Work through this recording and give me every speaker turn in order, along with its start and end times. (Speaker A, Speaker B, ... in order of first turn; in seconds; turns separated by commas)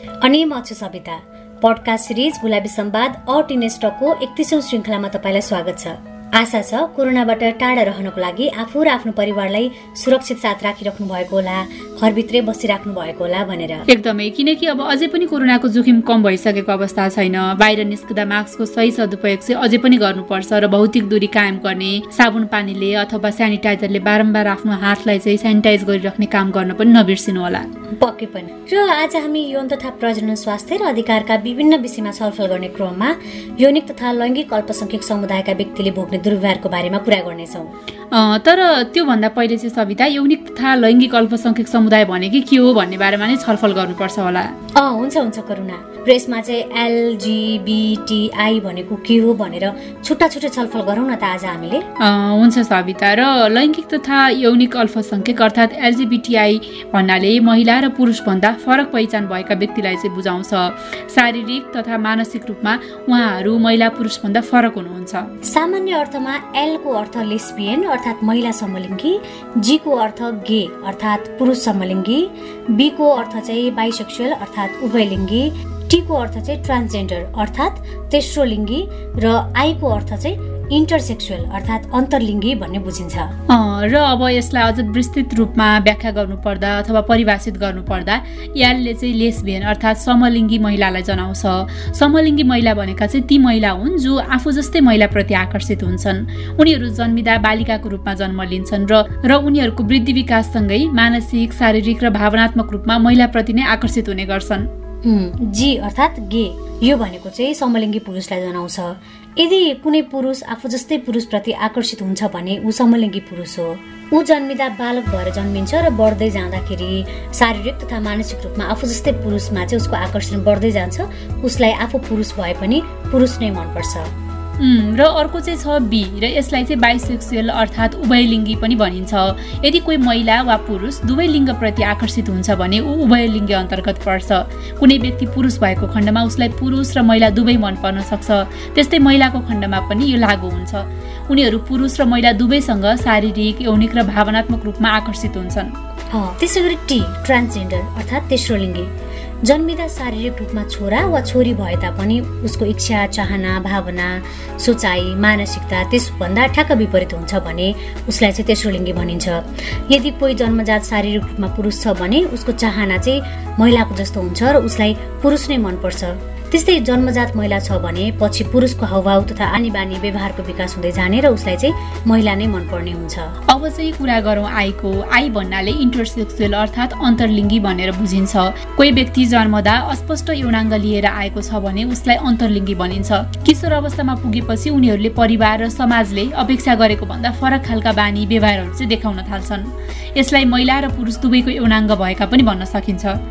Speaker A: 0.2-13.8, Speaker B: 13.9-27.7, Speaker A: 28.0-37.7, Speaker B: 38.1-44.5, Speaker A: 44.8-51.9, Speaker B: 52.0-65.3, Speaker A: 65.5-83.3, Speaker B: 83.5-104.7, Speaker A: 105.0-124.1, Speaker B: 124.6-145.7, Speaker A: 146.1-148.9, Speaker A: 149.4-173.3, Speaker B: 173.5-193.2